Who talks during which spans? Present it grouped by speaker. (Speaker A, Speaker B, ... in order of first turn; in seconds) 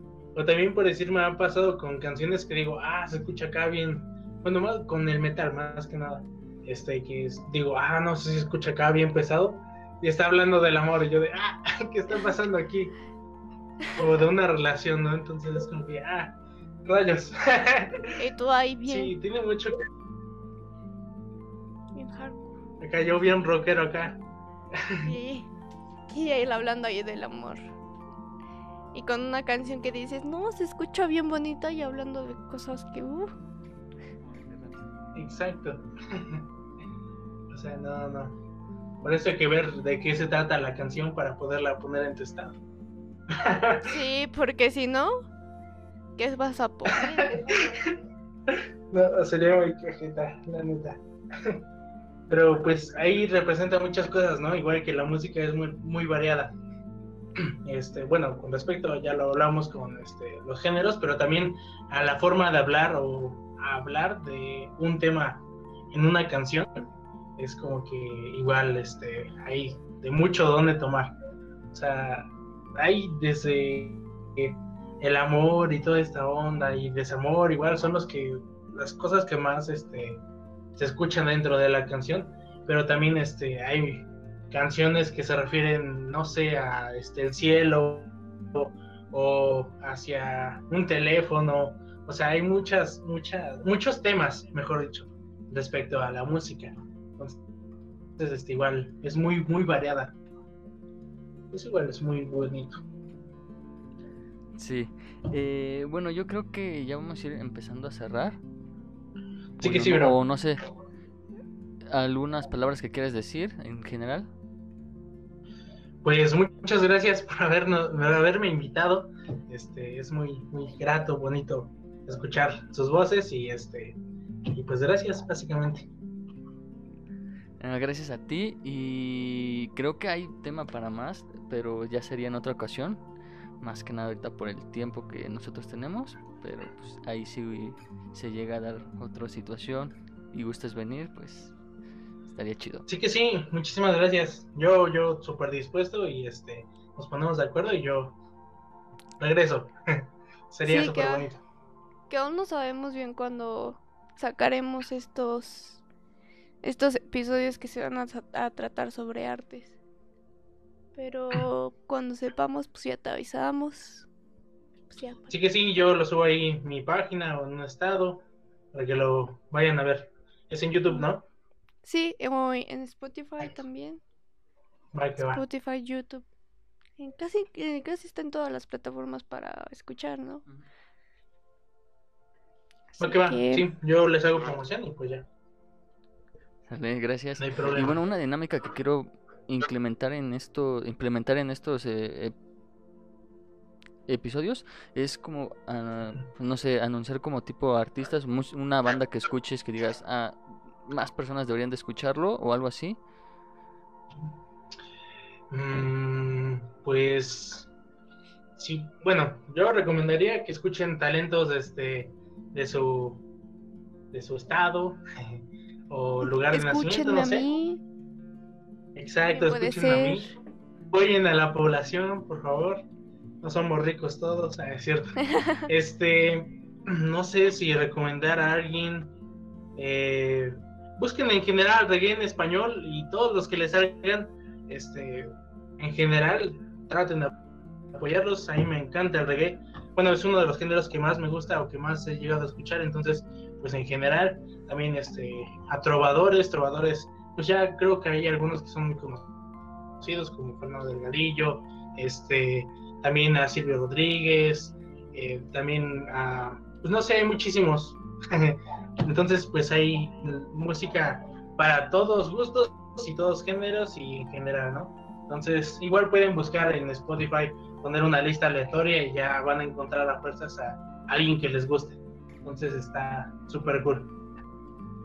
Speaker A: 0.3-12.9, 14.0-18.1, 18.9-19.8, 22.8-24.2, 24.8-25.1, 35.1-36.5, 37.5-38.4, 39.0-42.6, 43.3-43.9, 47.1-47.9, 48.5-51.6, 52.3-56.6, 57.4-71.1, 71.7-80.2, 80.8-97.4, 98.2-100.2, 101.5-102.8, 109.6-110.2, 116.0-125.9, 142.9-148.2, 149.2-151.4, 165.3-171.2, 174.9-175.4, 183.0-185.3, 187.4-188.0, 205.5-207.7, 208.6-213.2, 214.1-217.5, 218.9-220.3, 220.9-222.9, 223.4-229.1, 229.8-237.3, 237.9-249.3, 250.0-274.1
Speaker B: 18.2-19.1, 21.9-22.6, 25.0-25.5, 26.1-27.6, 28.9-33.3, 43.8-45.1, 46.2-47.8, 150.6-151.3, 152.1-155.8, 156.6-159.8, 160.9-164.1, 164.9-165.3, 171.8-174.0, 175.2-176.2, 177.0-180.4, 182.9-183.7, 216.5-217.8, 219.3-220.3, 225.3-225.6
Speaker C: 104.5-108.4, 109.6-110.6, 111.9-114.3, 127.6-133.0, 133.6-141.5, 142.3-142.8, 186.7-192.3, 194.1-203.0